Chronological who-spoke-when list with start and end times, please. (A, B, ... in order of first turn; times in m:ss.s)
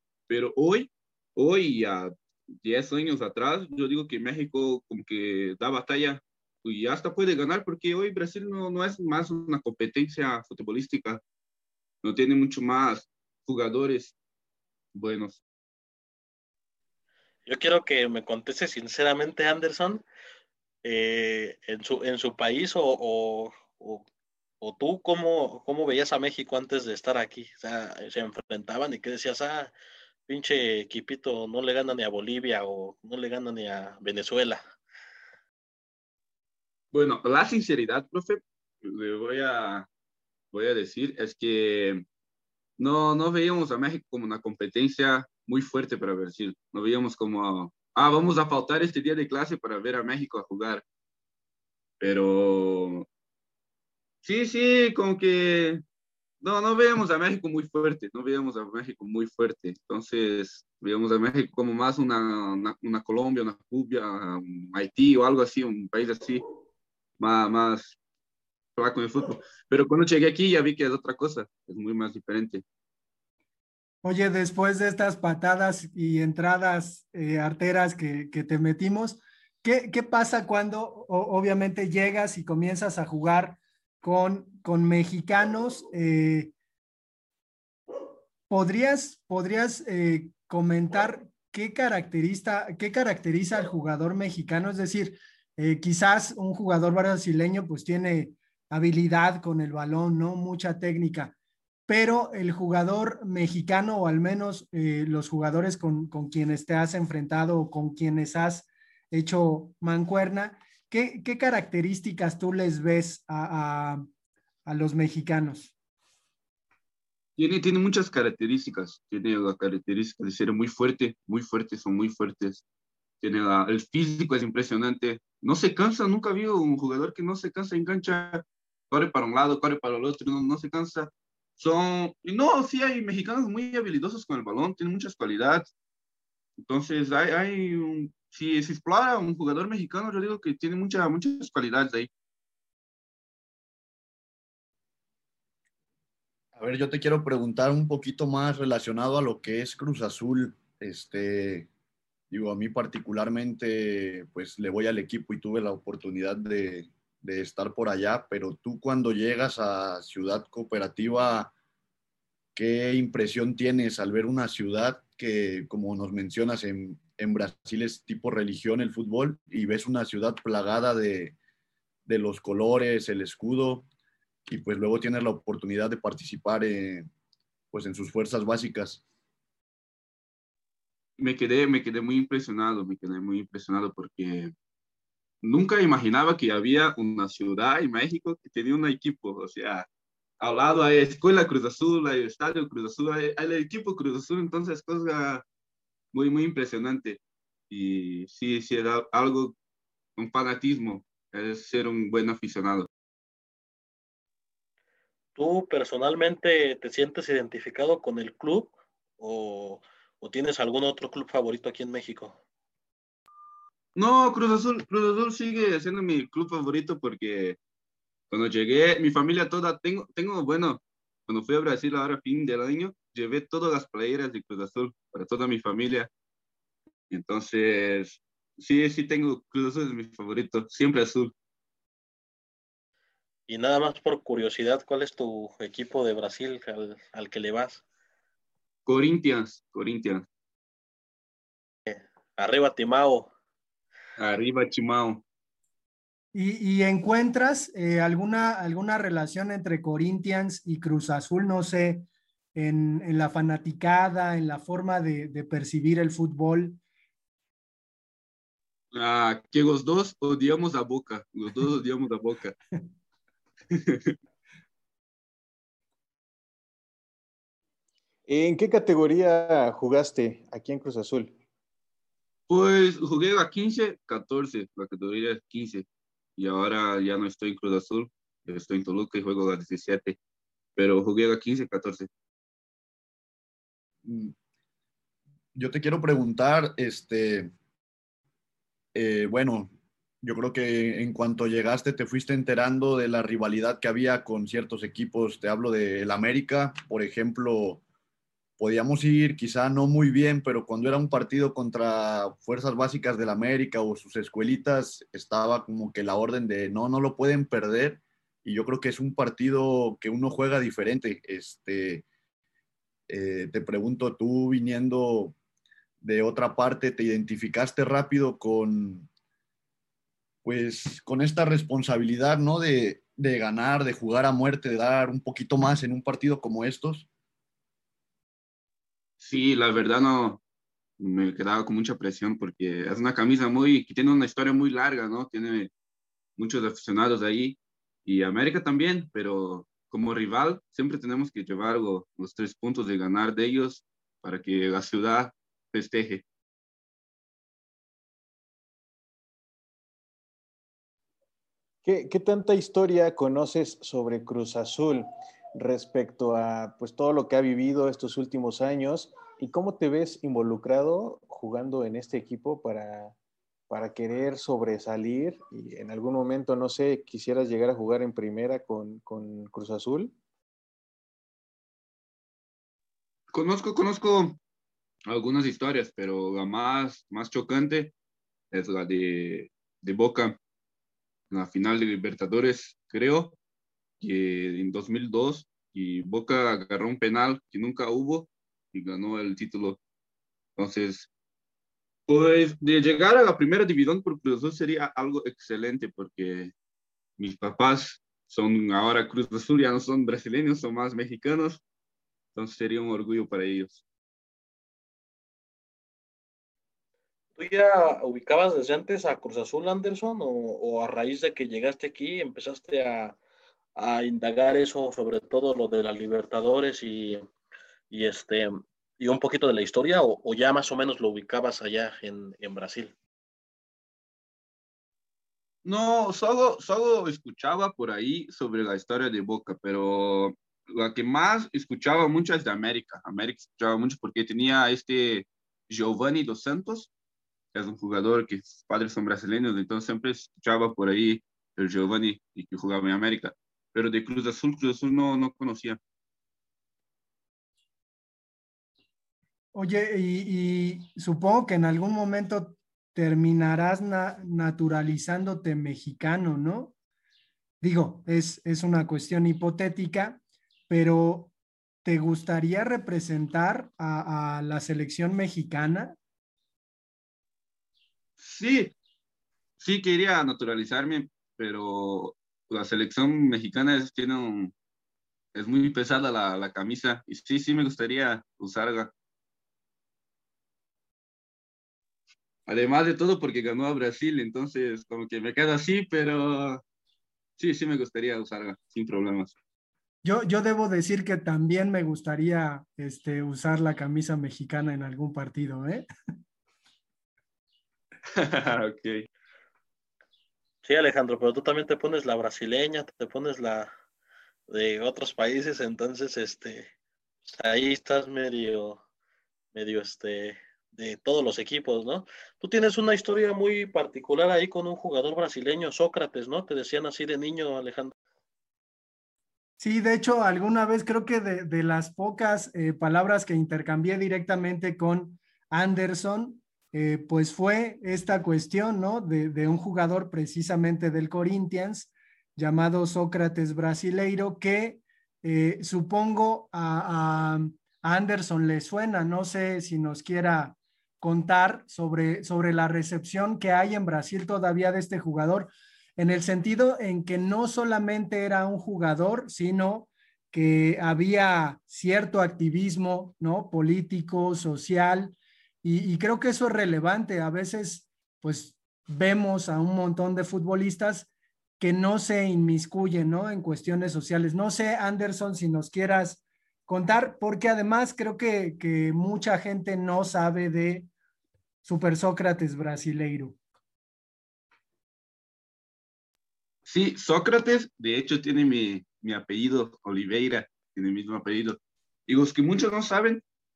0:00.3-0:11.2 A
0:12.0-0:14.2 A
0:14.9-0:15.4 A
0:17.5-0:20.0 B
0:20.8-0:24.0 B
0:24.6-0:29.7 B
0:30.3-0:34.6 B
0:36.9-0:39.9 A
0:40.5-0:42.0 A
0:42.8-0:50.8 A
0:52.0-0:53.1 A
0:54.2-0:55.8 A
0:56.4-1:06.4 A
1:07.2-1:08.0 A
1:08.8-1:12.6 A
1:14.0-1:26.5 C
1:28.5-1:41.4 C
1:41.9-1:54.1 C
1:54.7-1:55.7 C
1:57.4-2:02.6 A
2:03.2-2:15.7 A
2:16.6-2:22.1 A
2:26.6-2:31.7 D
2:32.3-2:41.5 D
2:42.6-2:51.4 D
2:52.1-2:53.8 D
2:54.5-2:57.1 D
2:57.7-2:59.0 D
3:01.2-3:04.5 A
3:05.4-3:09.9 A
3:10.4-3:15.4 A
3:16.1-3:19.6 A
3:20.2-3:22.9 A
3:25.4-3:32.4 B
3:34.0-3:37.6 A
3:38.3-3:46.1 A
3:47.1-3:51.3 A
3:53.5-3:57.8 B
3:58.9-4:00.2 A
4:01.9-4:03.3 B
4:04.2-4:05.2 A
4:06.3-4:16.8 C
4:18.9-4:22.6 A
4:23.7-4:24.2 A
4:28.3-4:31.4 E
4:32.5-4:35.8 A
4:36.4-4:40.2 A
4:40.8-4:42.1 A
4:44.0-4:44.3 D
4:45.6-4:47.5 D
4:48.9-4:49.7 D
4:50.2-4:57.8 D
4:58.6-5:12.1 D
5:13.1-5:15.4 D
5:16.0-5:19.1 D
5:20.4-5:27.1 D
5:29.2-5:30.4 A
5:31.0-5:35.7 A
5:36.4-5:46.2 A
5:51.8-6:03.2 E
6:03.7-6:10.1 E
6:13.3-6:14.4 A
6:15.1-6:17.9 A
6:18.5-6:20.4 A
6:21.3-6:23.4 A
6:24.0-6:29.8 A
6:30.6-6:31.1 A
6:32.1-6:36.5 A
6:37.2-6:41.6 A
6:42.4-6:43.8 A
6:47.4-6:53.2 B
6:53.8-6:57.2 B
6:57.9-7:02.9 B
7:05.6-7:16.9 A
7:17.5-7:25.8 A
7:29.5-7:36.7 C
7:37.6-7:41.3 C
7:41.8-7:46.0 C
7:48.2-7:48.7 A
7:49.6-7:54.5 A
7:55.3-7:58.9 A
8:02.5-8:06.6 A
8:07.4-8:09.3 A
8:10.0-8:15.9 C
8:18.1-8:19.1 A
8:20.6-8:23.7 B
8:24.5-8:26.7 B
8:27.3-8:28.8 B
8:29.5-8:37.9 B
8:39.6-9:30.9 C
9:31.6-9:33.4 C
9:36.6-9:43.2 A